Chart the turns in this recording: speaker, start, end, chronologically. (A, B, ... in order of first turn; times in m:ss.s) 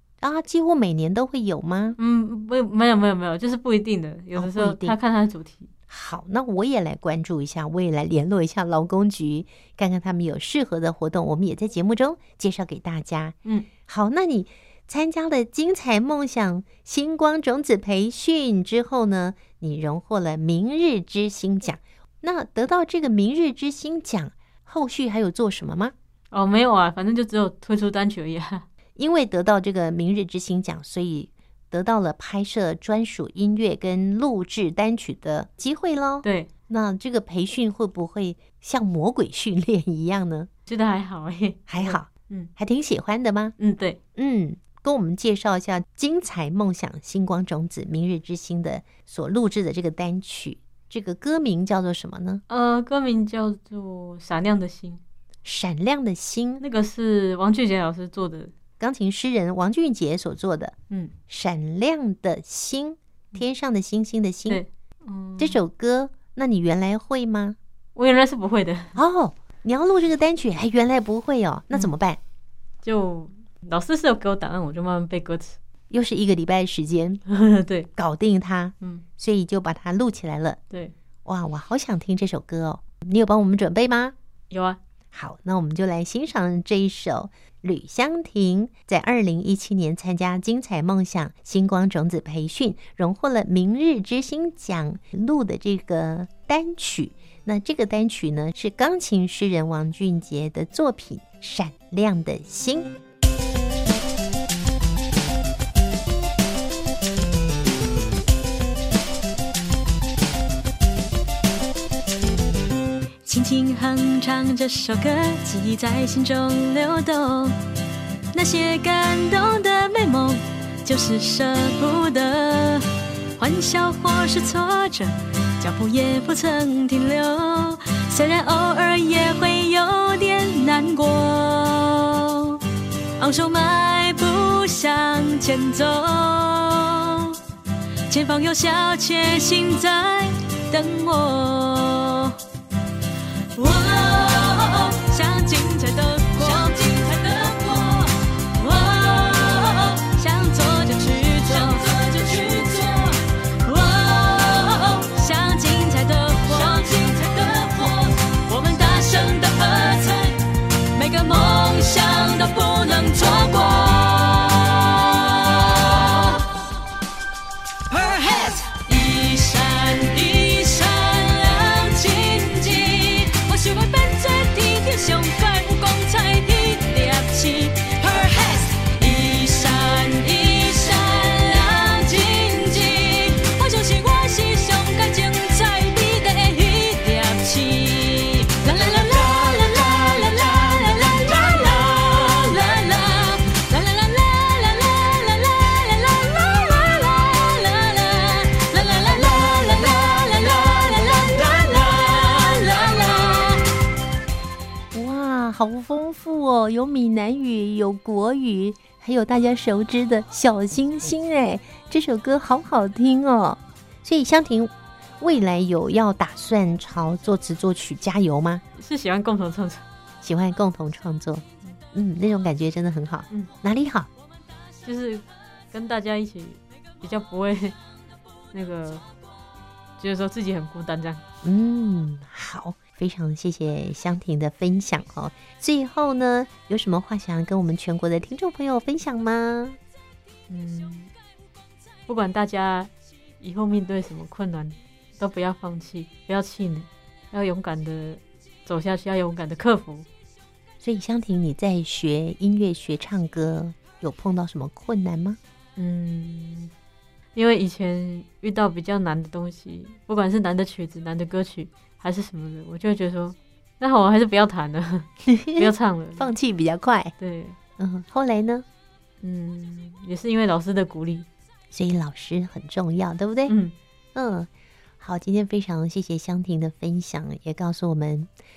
0:00.2-0:02.0 A
0:02.0-0:05.7 B
0:04.3-0:05.0 A
0:05.9-0:13.3 A
0:13.9-0:25.9 A
0:26.3-0:28.6 B
0:29.0-0:40.5 A
0:36.2-0:36.5 B
0:40.6-0:42.5 B
0:41.7-0:43.6 A
0:43.6-0:44.0 B
0:44.2-0:52.4 A
0:52.5-0:55.0 B
0:55.4-0:56.6 A
0:56.6-0:58.5 B
0:58.8-1:00.8 A
1:01.3-1:04.6 A
1:04.5-1:05.6 B
1:05.4-1:07.6 A
1:07.9-1:09.0 B
1:09.0-1:12.2 A
1:12.8-1:15.6 B
1:15.9-1:17.2 A
1:17.3-1:17.9 B
1:18.0-1:20.6 A
1:21.2-1:24.1 A
1:24.5-1:24.8 B
1:25.1-1:42.9 A
1:53.2-1:57.6 C
1:58.3-2:12.6 C
2:13.2-2:17.4 C
2:18.1-2:22.4 C
2:23.5-2:46.6 C
2:47.9-3:23.6 C
3:24.9-3:38.6 A
3:38.8-3:39.8 B
3:40.2-3:44.1 A
3:44.8-3:47.8 B
3:48.5-3:49.0 B
3:50.0-3:51.2 B
3:51.4-3:59.8 A
4:00.5-4:01.1 B
4:02.1-4:10.1 B
4:10.8-4:15.4 A
4:15.8-4:16.7 B
4:17.3-4:26.3 B
4:25.2-4:27.1 A
4:27.2-4:27.6 B
4:27.8-4:28.6 A
4:29.2-4:31.3 B
4:31.7-4:33.5 A
4:33.5-4:33.7 B
4:34.1-4:34.5 A
4:35.0-4:38.3 A